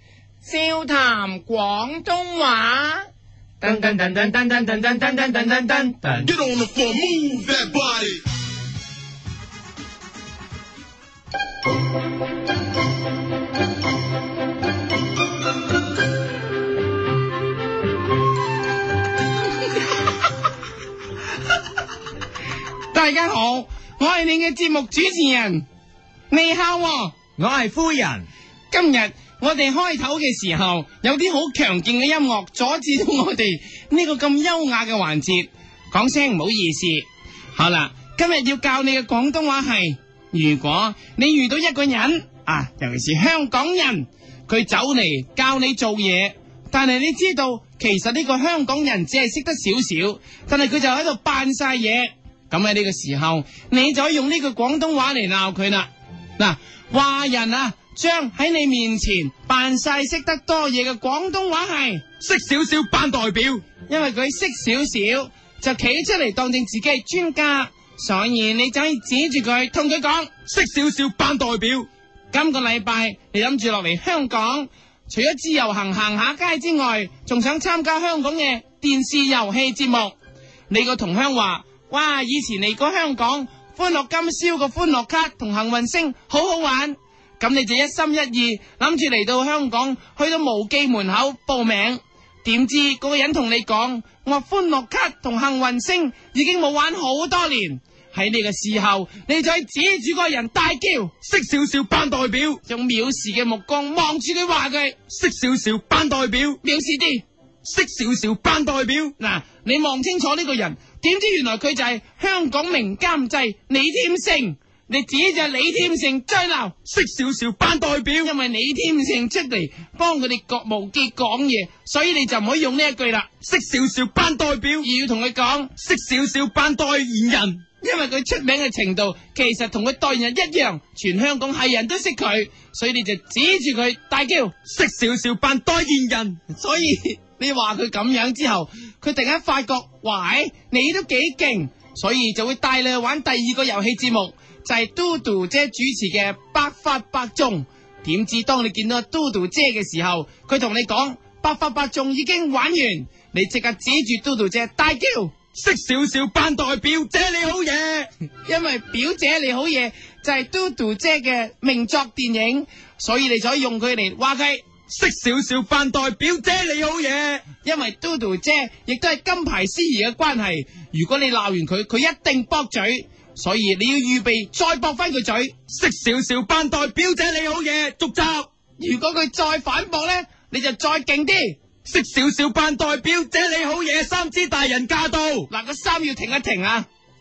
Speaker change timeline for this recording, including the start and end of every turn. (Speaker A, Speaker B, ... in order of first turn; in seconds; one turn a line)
Speaker A: 0.4-3.0
Speaker A: 3.6-6.2
Speaker B: 6.2-8.2
Speaker A: 22.9-25.6
Speaker A: 26.3-27.3
Speaker C: 27.4-28.2
Speaker A: 28.7-62.0
Speaker C: 62.2-63.6
Speaker A: 63.9-70.3
Speaker C: 70.5-71.9
Speaker A: 72.3-80.2
Speaker A: 80.7-101.1
Speaker C: 101.2-102.6
Speaker A: 102.7-105.0
Speaker C: 105.1-106.6
Speaker A: 106.6-107.2
Speaker C: 107.6-109.1
Speaker A: 109.2-116.8
Speaker C: 116.8-118.3
Speaker A: 118.2-123.3
Speaker C: 123.4-124.9
Speaker A: 124.8-125.7
Speaker C: 125.8-127.6
Speaker A: 127.8-134.5
Speaker C: 134.7-136.4
Speaker A: 136.5-155.3
Speaker C: 155.5-158.1
Speaker A: 158.4-164.7
Speaker C: 164.9-167.4
Speaker A: 167.6-175.6
Speaker C: 175.7-178.5
Speaker A: 178.8-181.6
Speaker C: 181.8-185.5
Speaker A: 185.5-186.8